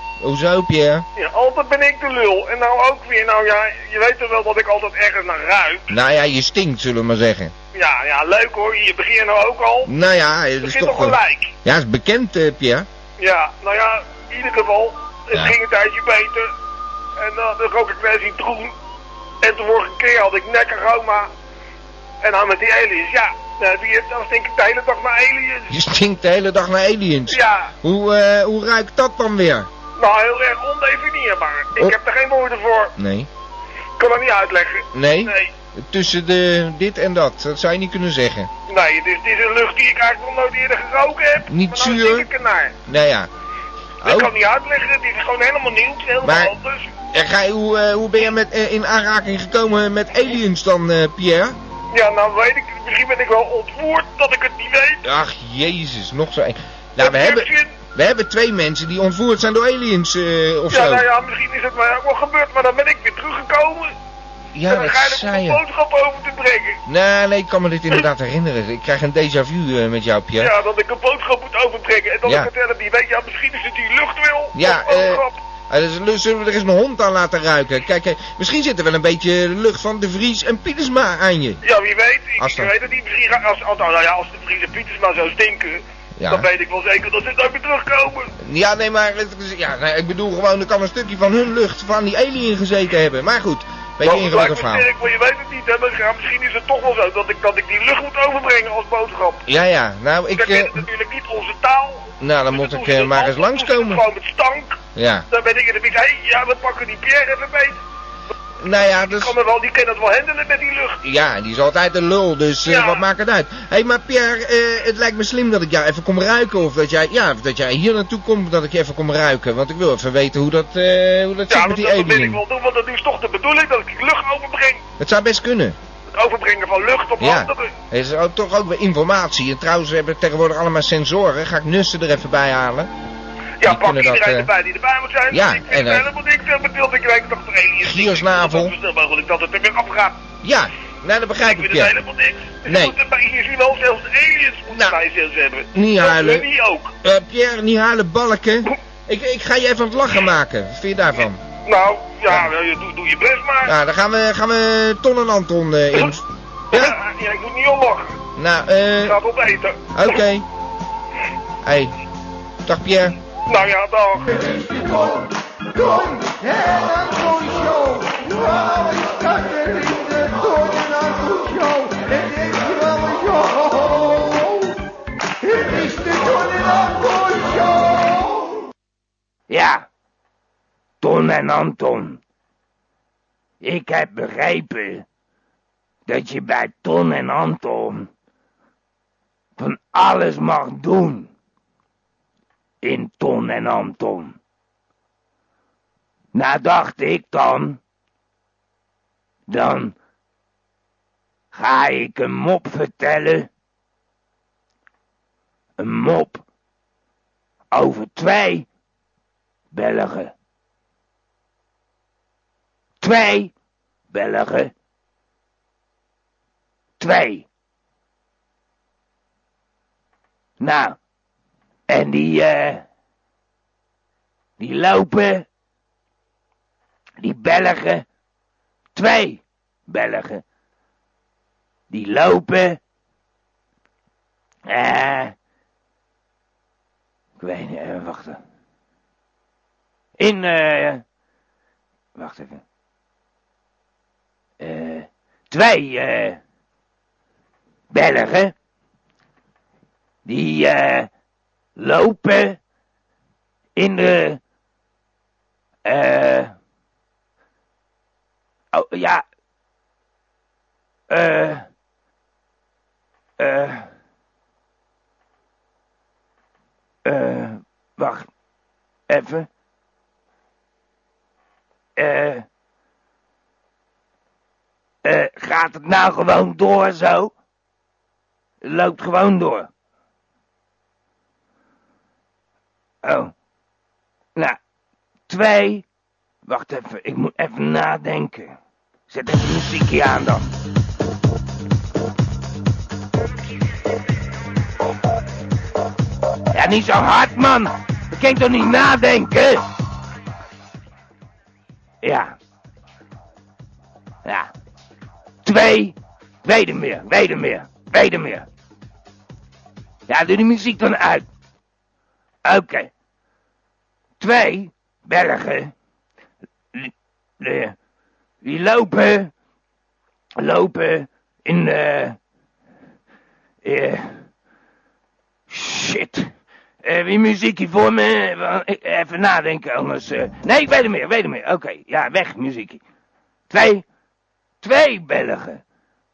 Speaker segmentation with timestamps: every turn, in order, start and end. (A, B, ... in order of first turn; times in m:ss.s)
0:00.2-0:01.1 A
0:01.2-0:05.9 B
0:05.9-0:07.5 A
0:07.7-0:09.9 B
0:09.9-0:12.9 A
0:10.6-0:11.5 B
0:13.2-0:16.5 B
0:17.2-0:18.7 B
0:19.4-0:21.3 B
0:22.2-0:25.7 B
0:25.7-0:29.7 A
0:27.3-0:27.7 B
0:30.0-0:32.9 B
0:33.0-0:33.3 A
0:34.0-0:35.5 B
0:34.9-0:38.5 A
0:38.7-0:42.7 B
0:41.5-0:42.3 A
0:42.9-0:43.3 A
0:44.0-0:44.3 A
0:44.0-0:46.9 B
0:46.2-0:46.5 A
0:47.1-0:51.6 A
0:51.9-0:55.0 B
0:55.0-1:01.1 A
0:57.0-0:57.7 B
1:00.7-1:03.9 B
1:04.5-1:05.6 A
1:04.7-1:06.8 B
1:06.9-1:10.5 A
1:10.4-1:15.4 B
1:12.2-1:12.5 A
1:14.6-1:21.6 A
1:21.6-1:28.3 B
1:22.4-1:22.7 A
1:26.2-1:26.5 A
1:28.4-1:34.9 A
1:34.0-1:39.4 B
1:39.5-1:40.8 A
1:40.4-1:44.8 B
1:42.2-1:44.0 A
1:45.0-1:45.3 A
1:45.3-1:47.8 B
1:48.6-1:49.3 A
1:49.0-1:51.0 B
1:51.0-2:02.4 A
1:52.7-1:53.0 B
2:01.5-2:04.8 B
2:05.0-2:05.8 A
2:06.1-2:07.7 B
2:07.2-2:12.9 A
2:13.6-2:20.2 B
2:13.6-2:14.5 A
2:15.3-2:16.1 A
2:17.8-2:18.7 A
2:20.4-2:22.0 A
2:21.4-2:26.9 B
2:22.7-2:23.0 A
2:24.7-2:25.0 A
2:25.7-2:26.5 A
2:27.0-2:31.4 A
2:31.6-2:33.7 B
2:33.6-2:36.9 A
2:36.7-2:38.2 B
2:38.4-2:39.2 A
2:39.0-2:40.2 B
2:39.9-2:40.5 A
2:41.6-2:41.9 A
2:42.6-2:43.2 A
2:43.5-2:44.4 B
2:52.8-2:53.2 A
2:55.6-2:56.3 A
2:59.5-2:59.9 C
3:01.0-3:02.2 C
3:03.6-3:05.0 C
3:06.1-3:08.1 C
3:09.6-3:11.3 C
3:12.8-3:14.4 C
3:16.3-3:17.8 C
3:19.5-3:20.0 C
3:21.5-3:23.5 C
3:25.8-3:26.4 C
3:27.7-3:28.7 C
3:29.7-3:30.3 C
3:33.0-3:33.5 C
3:34.1-3:34.7 C
3:37.0-3:37.5 C
3:40.6-3:41.0 C
3:41.9-3:42.8 C
3:44.6-3:45.5 C
3:47.2-3:48.0 C
3:49.0-3:50.4 C
3:51.9-3:52.8 C
3:54.7-3:55.4 C
3:57.4-3:58.4 C
4:00.2-4:01.0 C
4:02.2-4:02.6 C
4:04.6-4:06.4 C
4:07.9-4:08.5 C
4:10.2-4:11.1 C
4:11.8-4:12.6 C
4:13.8-4:14.4 C
4:15.8-4:16.5 C
4:18.7-4:19.2 C
4:21.1-4:21.7 C
4:23.4-4:23.9 C
4:27.0-4:28.3 C
4:29.1-4:29.5 C
4:32.0-4:32.5 C
4:35.0-4:37.3 C
4:38.6-4:39.7 C
4:43.0-4:43.3 C
4:45.3-4:45.8 C
4:46.4-4:48.6 C
4:49.1-4:50.5 C
4:56.5-4:59.6 C
5:02.0-5:02.4 C
5:04.2-5:04.5 C
5:05.4-5:08.5 C
5:10.1-5:11.3 C
5:12.4-5:12.9 C
5:14.2-5:15.7 C
5:16.7-5:17.8 C
5:18.4-5:19.3 C
5:20.4-5:22.2 C
5:23.6-5:24.3 C
5:25.5-5:26.3 C
5:26.8-5:32.8 C
5:33.5-5:33.8 C
5:34.6-5:35.6 C